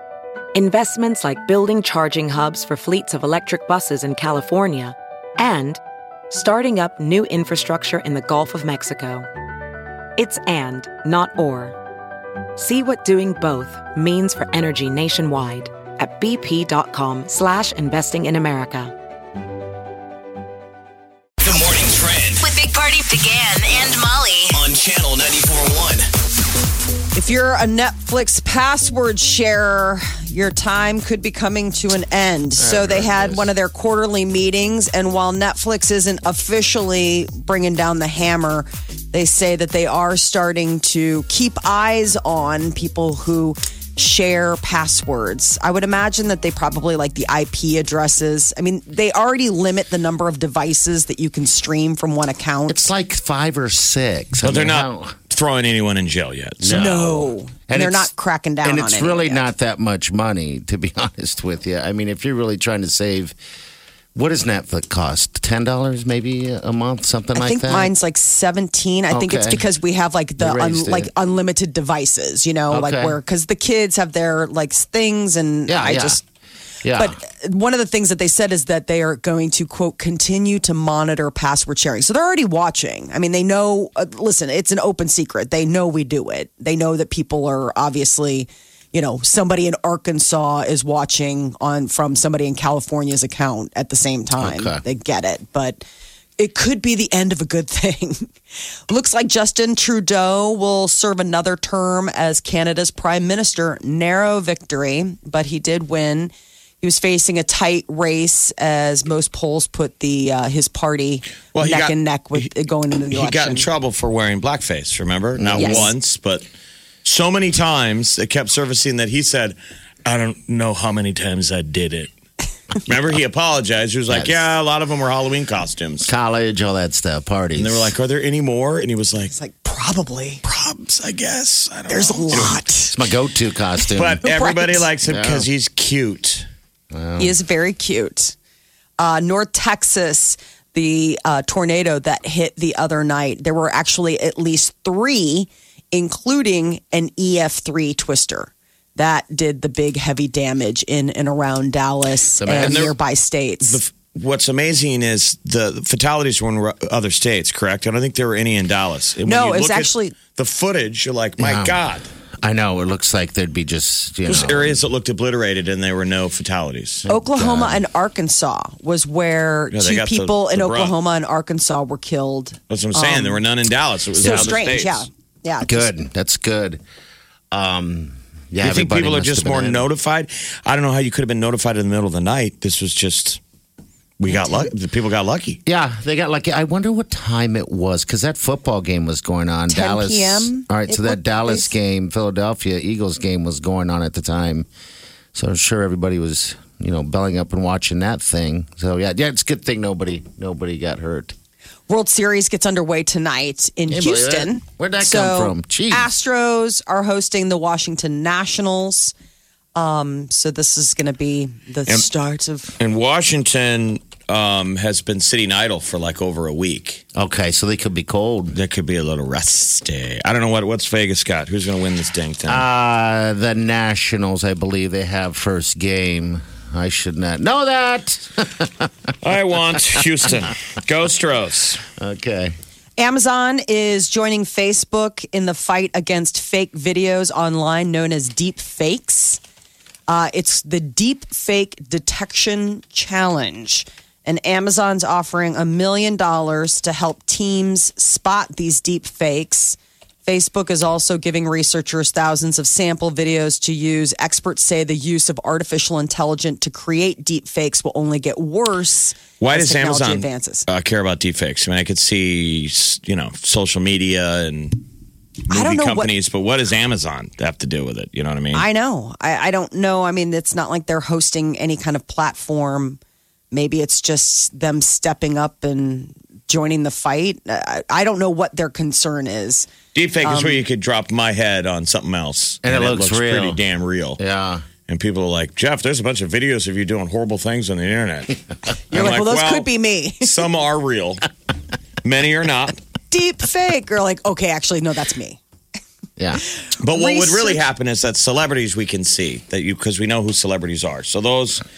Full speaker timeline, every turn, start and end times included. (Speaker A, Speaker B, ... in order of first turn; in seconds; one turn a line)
Speaker A: 0.5-9.3
Speaker A: 10.2-11.8
Speaker A: 12.6-18.9
Speaker B: 21.4-22.3
Speaker C: 22.4-24.7
Speaker B: 24.6-26.1
Speaker D: 27.1-52.9
Speaker E: 32.6-33.5
Speaker E: 52.7-55.2
Speaker F: 54.4-57.1
Speaker E: 56.6-58.1
Speaker D: 56.7-59.5
Speaker E: 58.6-63.3
Speaker E: 64.1-67.9
Speaker D: 67.3-76.2
Speaker E: 69.1-69.6
Speaker E: 70.4-71.1
Speaker E: 72.7-73.2
Speaker E: 75.7-76.2
Speaker E: 76.8-77.2
Speaker D: 77.0-95.9
Speaker E: 94.4-94.8
Speaker D: 96.4-98.3
Speaker D: 98.9-113.7
Speaker F: 111.5-112.5
Speaker F: 113.1-116.5
Speaker E: 115.4-115.9
Speaker D: 115.6-115.9
Speaker F: 117.0-122.1
Speaker F: 122.8-126.1
Speaker E: 124.1-124.4
Speaker E: 126.0-127.9
Speaker F: 127.5-129.3
Speaker D: 129.3-130.4
Speaker F: 130.4-132.6
Speaker D: 131.9-132.9
Speaker E: 132.9-134.2
Speaker F: 133.9-136.5
Speaker D: 134.2-134.9
Speaker E: 135.0-135.5
Speaker E: 136.9-137.3
Speaker D: 137.2-138.3
Speaker D: 139.0-153.8
Speaker E: 152.4-152.9
Speaker F: 152.6-153.0
Speaker F: 153.7-162.1
Speaker D: 159.2-160.1
Speaker E: 161.4-161.8
Speaker E: 162.4-164.8
Speaker F: 164.3-167.1
Speaker E: 167.1-167.8
Speaker D: 167.1-173.4
Speaker F: 169.7-170.9
Speaker F: 172.7-175.1
Speaker D: 174.2-175.9
Speaker E: 174.2-174.6
Speaker E: 175.6-176.8
Speaker E: 177.5-179.9
Speaker F: 178.6-183.4
Speaker F: 184.2-185.6
Speaker E: 185.7-194.7
Speaker D: 189.7-191.7
Speaker E: 195.3-201.3
Speaker D: 201.9-209.1
Speaker E: 203.9-206.1
Speaker D: 209.7-212.7
Speaker F: 212.8-217.0
Speaker E: 217.1-218.6
Speaker F: 218.5-222.7
Speaker E: 222.4-229.1
Speaker F: 229.2-231.8
Speaker E: 229.7-230.3
Speaker E: 232.0-232.6
Speaker D: 233.0-239.4
Speaker D: 240.1-260.7
Speaker F: 259.4-264.8
Speaker F: 265.5-268.6
Speaker D: 265.5-266.1
Speaker D: 268.5-273.0
Speaker D: 273.5-279.7
Speaker F: 279.9-284.2
Speaker D: 280.2-280.6
Speaker E: 282.6-283.6
Speaker E: 284.2-284.6
Speaker F: 284.9-288.4
Speaker F: 288.9-289.7
Speaker D: 288.9-290.3
Speaker F: 290.2-291.3
Speaker F: 292.0-292.8
Speaker D: 293.1-295.4
Speaker D: 296.6-297.6
Speaker F: 296.8-301.6